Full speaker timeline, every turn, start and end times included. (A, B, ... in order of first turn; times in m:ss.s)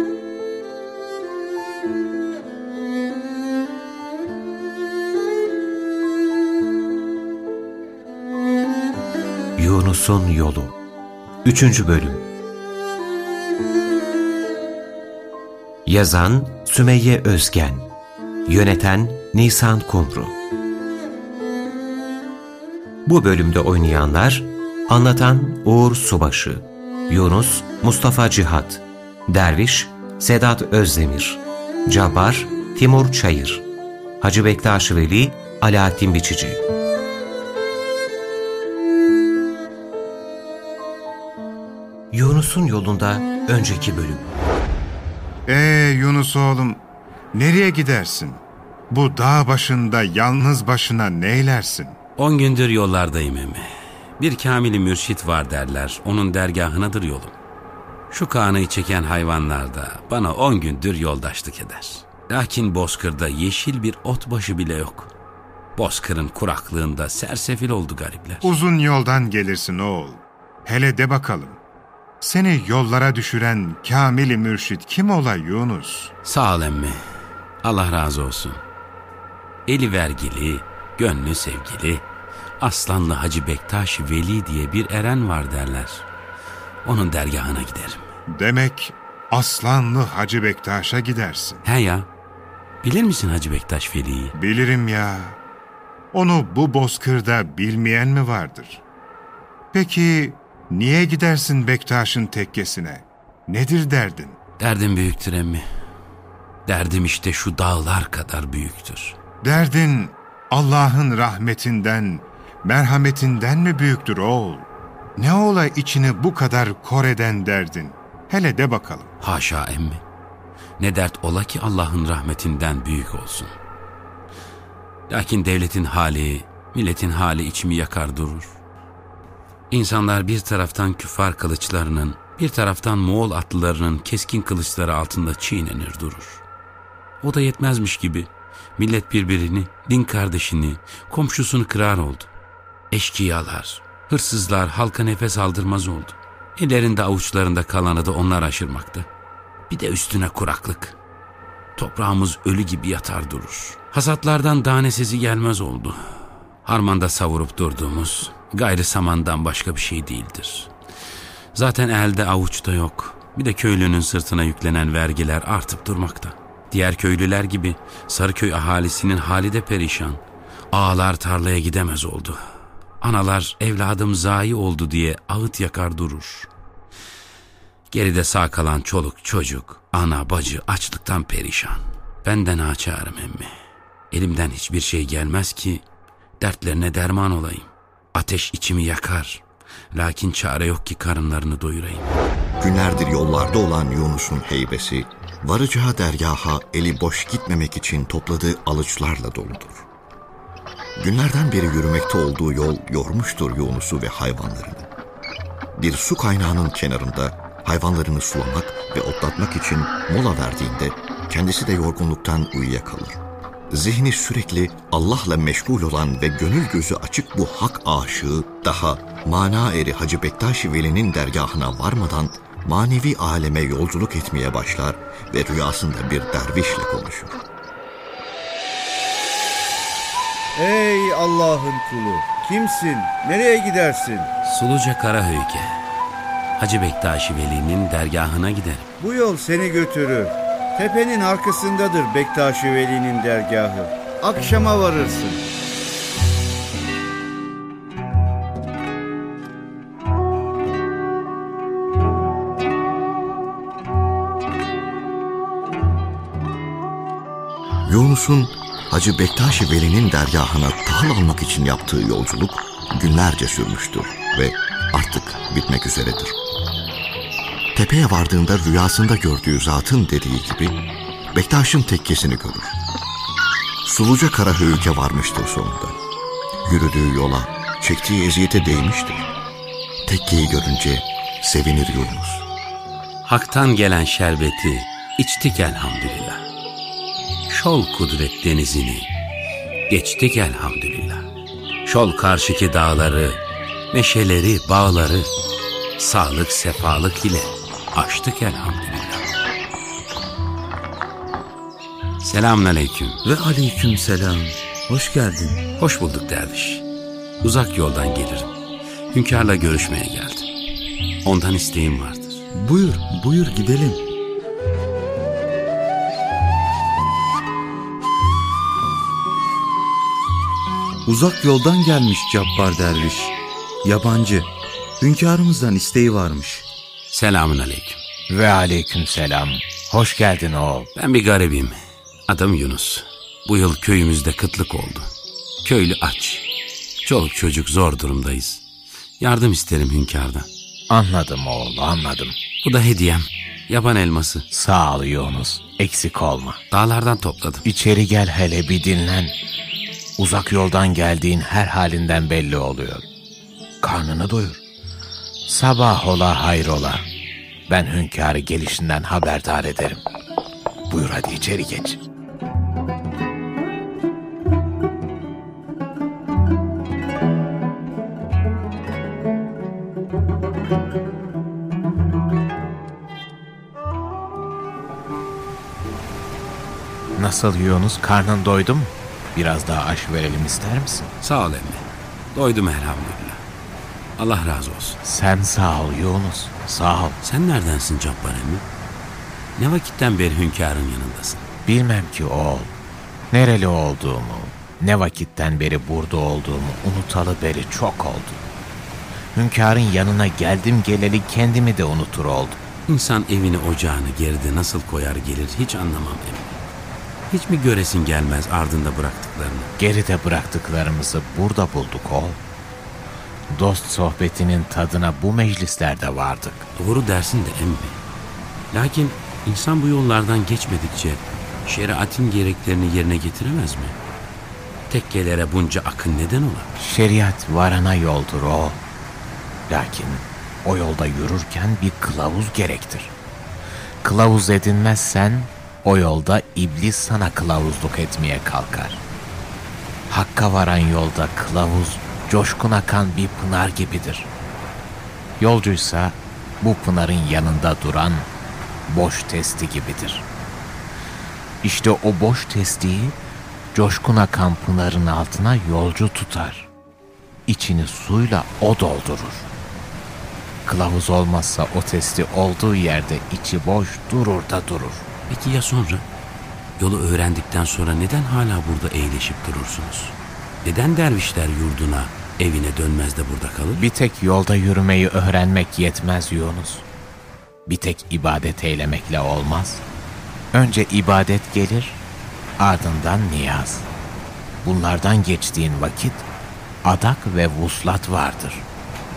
0:09.6-0:10.8 A
0:11.4-0:12.3 A
0:15.9-0:17.9 A
0:18.5-0:20.4 A
0:23.1-0:33.7 A
0:34.2-0:36.6 A
0:42.1-0:44.4 A
0:45.5-0:46.8 B
0:47.3-0:52.0 B
0:52.2-0:57.3 C
0:58.1-1:05.1 C
1:05.8-1:08.5 C
1:08.4-1:11.6 B
1:12.2-1:16.1 B
1:16.2-1:17.0 C
1:17.6-1:18.6 C
1:19.7-1:22.0 C
1:22.6-1:26.1 C
1:26.8-1:28.1 C
1:28.3-1:31.6 B
1:31.6-1:32.1 C
1:32.8-1:34.4 C
1:34.4-1:35.4 B
1:36.1-1:38.8 B
1:39.7-1:44.4 B
1:44.6-1:45.6 C
1:46.7-1:49.2 C
1:49.4-1:54.7 B
1:55.2-1:59.1 B
1:59.2-2:00.0 C
2:00.8-2:03.5 C
2:05.1-2:08.6 C
2:09.7-2:16.4 C
2:17.2-2:22.3 C
2:22.9-2:29.1 C
2:29.7-2:31.0 C
2:31.8-2:40.7 C
2:41.5-2:52.4 C
2:53.0-2:56.5 C
2:57.9-3:03.5 C
3:04.1-3:05.8 C
3:06.4-3:12.2 C
3:12.6-3:19.9 D
3:21.0-3:24.9 D
3:25.8-3:33.2 D
3:33.7-3:47.4 D
3:50.6-3:54.3 E
3:54.4-3:55.8 C
3:56.6-3:58.9 C
3:59.0-4:05.4 E
4:17.9-4:26.4 D
4:27.8-4:30.8 D
4:31.3-4:32.8 D
4:33.8-4:36.0 D
4:36.6-4:39.3 D
4:40.1-4:42.5 D
4:43.2-4:46.4 C
4:47.5-4:49.1 C
4:49.9-4:51.3 C
4:51.8-4:55.3 C
4:56.0-4:59.3 C
5:02.2-5:03.2 C
5:03.2-5:05.6 F
5:05.8-5:06.8 C
5:07.4-5:08.6 C
5:09.1-5:10.5 C
5:11.2-5:12.4 C
5:12.5-5:14.0 F
5:21.0-5:26.7 F
5:27.1-5:28.0 C
5:28.3-5:30.9 G
5:31.0-5:35.1 C
5:35.6-5:36.4 C
5:37.0-5:38.6 C
5:39.2-5:40.5 C
5:40.9-5:42.4 G
5:42.6-5:44.5 C
5:44.5-5:46.6 G
5:46.7-5:47.6 C
5:47.6-5:49.4 G
5:50.2-5:53.1 G
5:53.8-5:54.6 G
5:55.5-5:57.1 G
5:57.7-6:00.0 G
6:00.9-6:02.0 G
6:17.2-6:21.1 G
6:21.2-6:23.4 C
6:24.2-6:25.0 C
6:25.0-6:27.2 G
6:27.2-6:28.6 C
6:29.6-6:31.5 C
6:31.7-6:32.7 G
6:33.3-6:38.4 G
6:39.4-6:42.6 G
6:42.9-6:46.6 C
6:47.3-6:49.7 C
6:49.8-6:52.4 G
6:53.5-6:56.7 G
6:56.8-6:58.0 C
6:58.7-7:04.0 C
7:04.9-7:06.7 C
7:06.8-7:08.8 G
7:09.7-7:13.1 G
7:14.0-7:19.0 G
7:20.1-7:24.3 G
7:25.4-7:28.3 G
7:28.9-7:30.3 G
7:31.6-7:33.2 G
7:33.7-7:36.7 G
7:37.5-7:39.5 G
7:40.7-7:45.1 G
7:45.3-7:46.1 C
7:46.8-7:53.8 C
7:53.8-7:56.8 G
7:57.7-7:59.8 G
8:00.5-8:02.0 G
8:02.6-8:03.9 G
8:04.6-8:06.3 G
8:06.8-8:08.7 G